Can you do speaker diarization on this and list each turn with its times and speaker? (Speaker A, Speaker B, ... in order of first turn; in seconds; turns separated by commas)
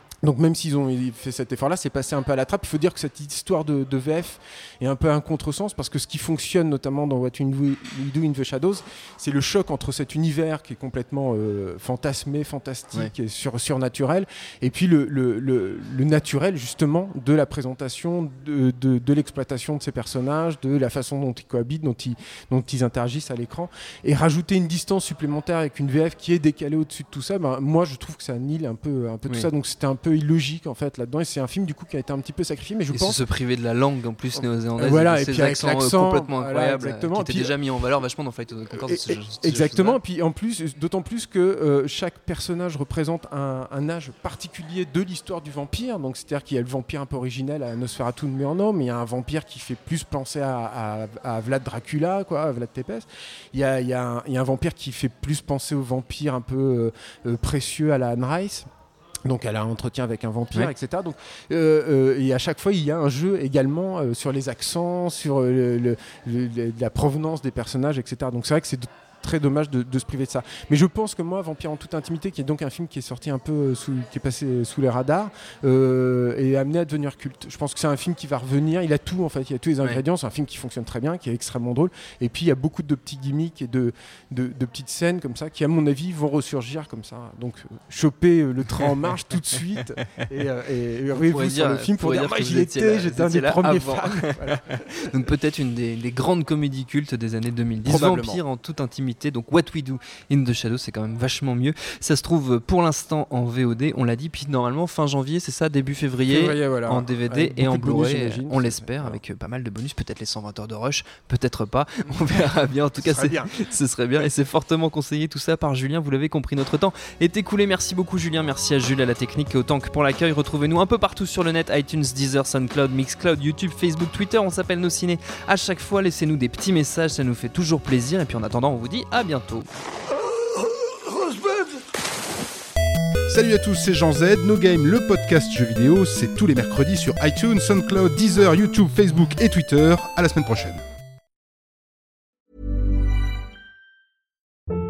Speaker A: 0.2-33.2, Speaker B: 32.9-40.0, Speaker A: 34.8-37.5, Speaker A: 38.7-58.6, Speaker A: 59.3-94.8, Speaker B: 91.2-94.5, Speaker B: 95.1-129.7, Speaker A: 97.8-98.4, Speaker A: 106.2-109.2, Speaker A: 113.0-113.5, Speaker C: 133.3-140.8